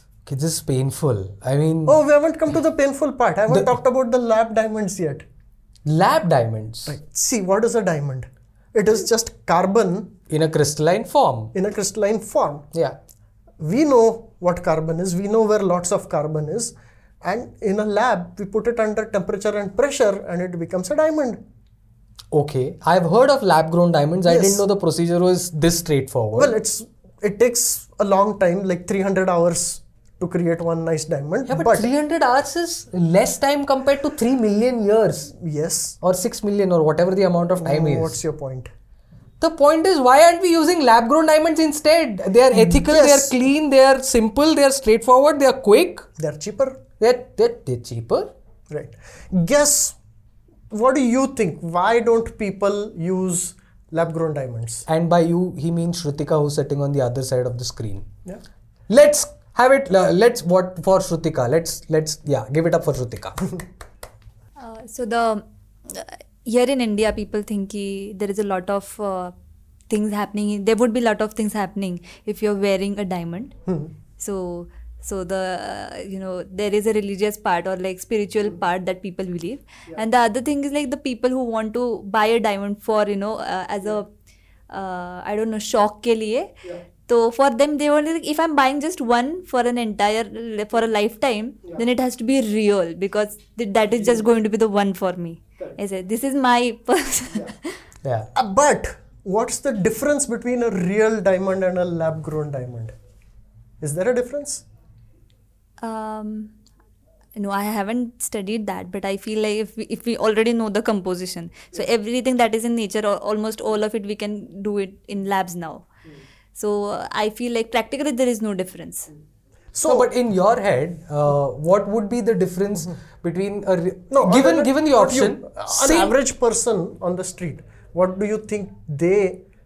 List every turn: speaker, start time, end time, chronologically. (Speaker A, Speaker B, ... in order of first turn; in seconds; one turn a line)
Speaker A: 0.2-2.0
Speaker B: 1.9-5.2
Speaker A: 3.5-3.8
Speaker A: 5.8-7.0
Speaker B: 6.9-10.1
Speaker A: 10.3-11.5
Speaker B: 11.5-12.6
Speaker B: 13.6-21.4
Speaker A: 22.3-26.5
Speaker B: 24.2-24.6
Speaker B: 26.4-31.9
Speaker A: 31.4-35.3
Speaker B: 35.3-36.0
Speaker A: 36.0-38.2
Speaker B: 37.6-38.7
Speaker A: 39.4-46.0
Speaker B: 42.5-43.4
Speaker B: 46.2-46.8
Speaker A: 47.0-48.3
Speaker B: 48.7-50.0
Speaker B: 50.7-54.8
Speaker A: 54.9-58.0
Speaker A: 58.9-63.5
Speaker C: 64.6-69.3
Speaker C: 69.9-73.5
Speaker C: 74.2-84.1
Speaker C: 84.7-86.5
Speaker C: 87.1-97.8
Speaker B: 98.3-102.9
Speaker B: 103.8-104.6
Speaker C: 105.8-106.5
Speaker C: 107.3-115.9
Speaker C: 116.5-119.1
Speaker B: 119.7-120.1
Speaker A: 119.8-126.1
Speaker B: 124.1-129.4